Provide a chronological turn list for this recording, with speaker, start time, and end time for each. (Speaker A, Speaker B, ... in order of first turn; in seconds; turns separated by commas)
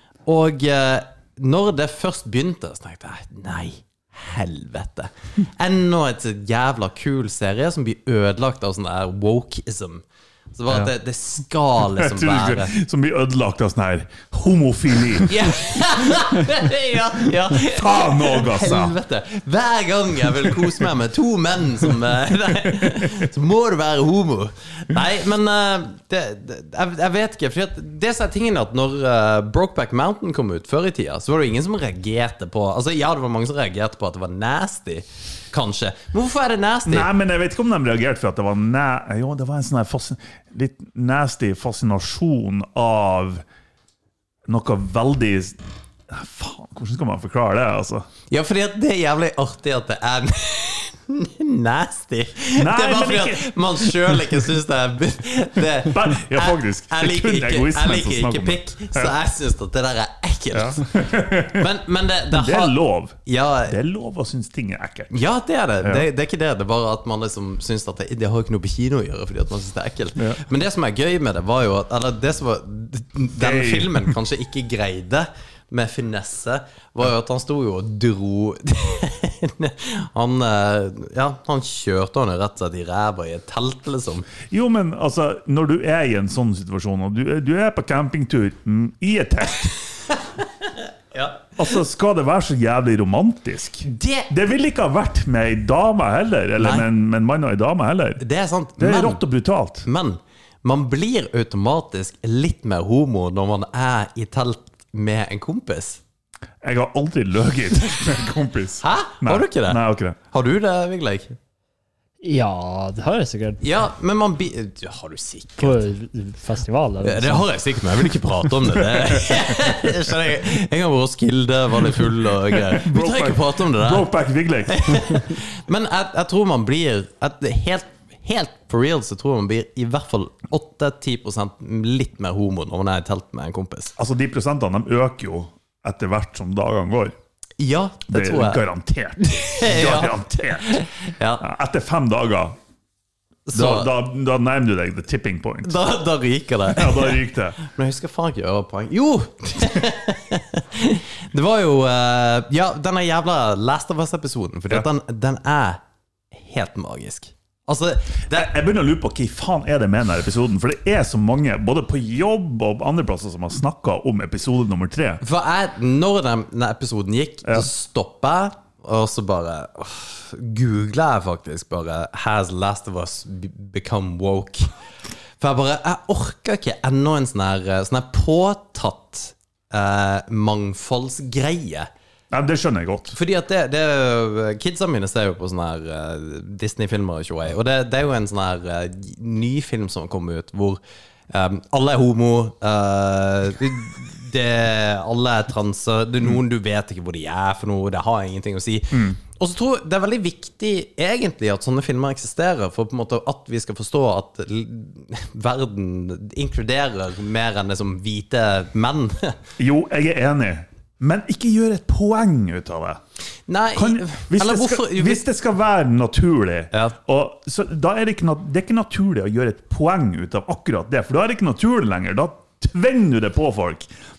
Speaker A: 0.2-12.7, Speaker B: 11.8-15.3, Speaker A: 15.3-37.1, Speaker B: 17.5-18.9, Speaker B: 22.6-23.3, Speaker B: 36.9-43.4, Speaker B: 44.5-48.0, Speaker A: 48.3-60.9, Speaker B: 52.5-54.3, Speaker B: 55.9-59.1, Speaker B: 60.5-61.7, Speaker A: 61.4-63.8, Speaker B: 62.3-65.1, Speaker A: 65.1-84.3, Speaker B: 65.8-66.1, Speaker B: 73.4-74.2, Speaker B: 84.5-89.8, Speaker A: 90.1-91.5, Speaker B: 91.5-98.2, Speaker A: 93.8-94.3, Speaker A: 96.6-96.8, Speaker A: 98.2-99.2, Speaker B: 98.8-99.9, Speaker A: 99.8-106.0, Speaker B: 106.6-110.2, Speaker A: 108.8-111.3, Speaker C: 112.2-113.6, Speaker A: 113.6-115.8, Speaker C: 115.6-117.5, Speaker A: 117.0-124.1, Speaker B: 118.7-119.4, Speaker B: 122.5-125.2, Speaker A: 124.7-133.9, Speaker B: 134.0-137.1, Speaker A: 137.6-138.6, Speaker B: 138.1-140.8, Speaker A: 139.2-141.4, Speaker B: 141.4-142.6, Speaker A: 143.4-143.9, Speaker B: 143.5-145.8, Speaker A: 145.6-155.8, Speaker B: 146.7-147.6, Speaker A: 156.3-158.5, Speaker B: 158.3-165.2, Speaker A: 165.2-174.7, Speaker A: 175.4-181.9, Speaker B: 182.3-183.2, Speaker A: 183.1-209.4, Speaker B: 198.9-199.2, Speaker B: 209.6-213.0, Speaker A: 213.5-215.2, Speaker B: 213.7-223.9, Speaker A: 216.7-217.0